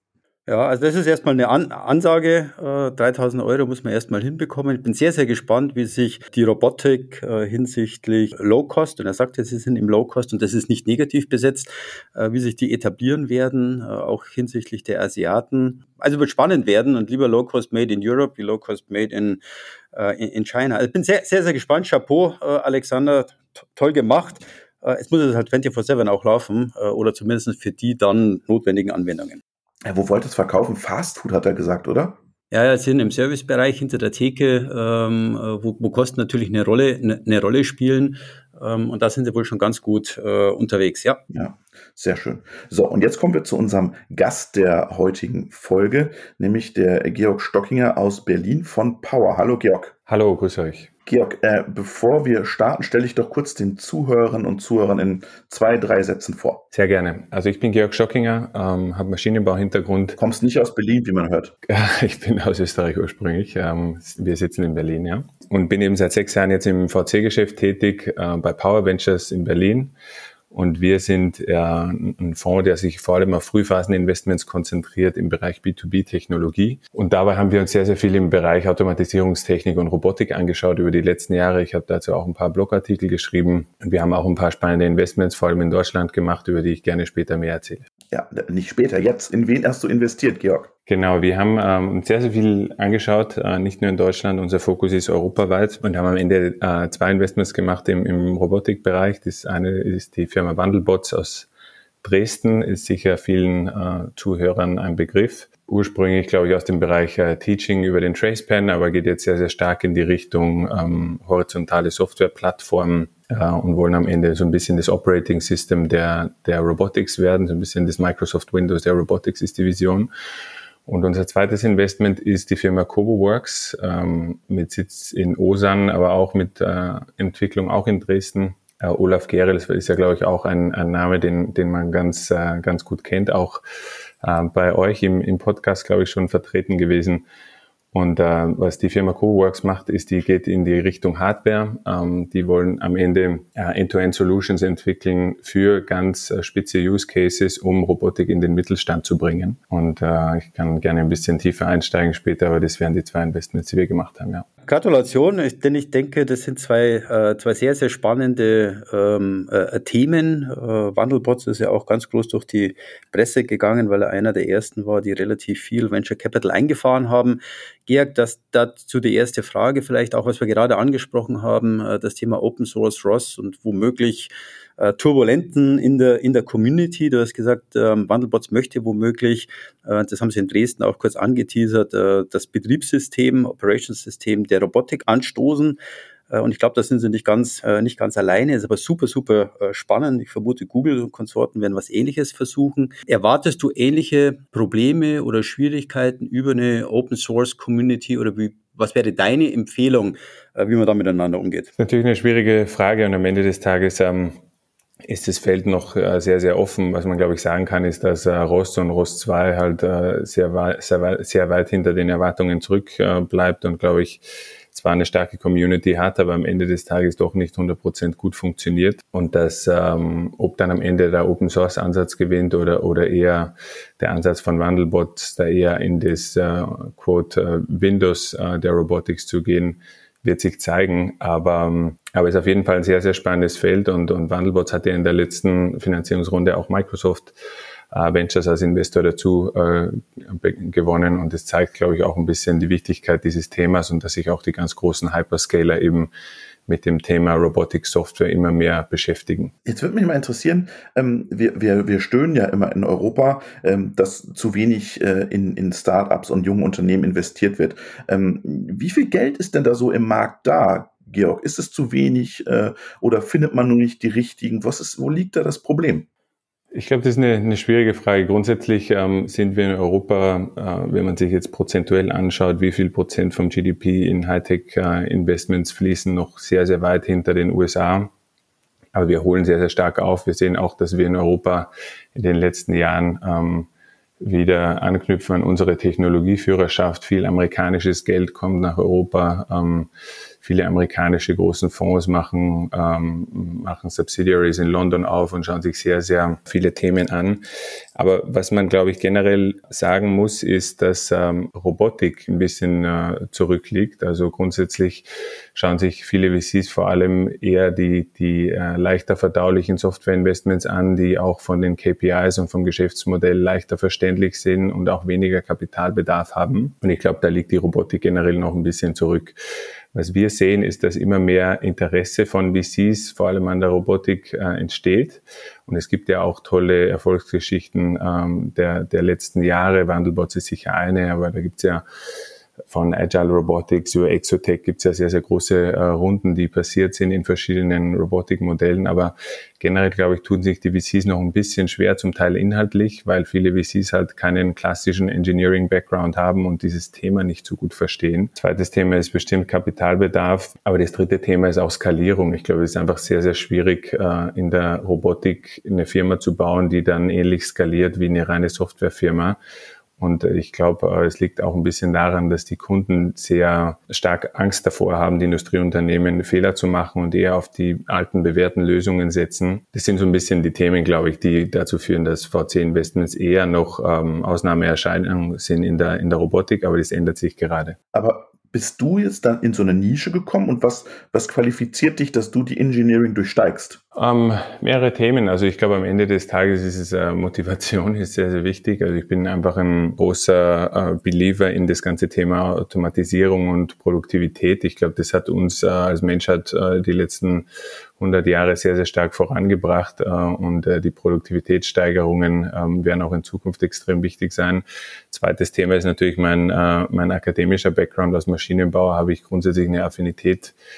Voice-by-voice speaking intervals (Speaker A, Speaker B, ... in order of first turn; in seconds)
Speaker A: 0.5-19.4, 19.9-29.4, 32.5-41.2, 154.7-185.8, 186.3-201.7
Speaker B: 29.9-32.2, 41.3-49.9, 51.1-56.6, 60.2-61.5, 88.1-90.7, 249.7-266.1, 377.9-383.8
Speaker C: 50.1-50.9, 56.7-60.2, 61.7-69.9, 70.5-87.9, 90.9-101.5, 102.0-120.1, 120.9-133.6, 134.2-137.2, 137.9-154.5, 201.8-204.4, 205.1-237.3, 237.9-246.1, 246.7-249.5, 266.7-278.1, 278.9-283.7, 284.2-289.9, 290.4-297.4, 298.0-319.4, 319.9-331.8, 332.7-359.4, 360.0-377.8, 383.9-397.5, 398.0-410.6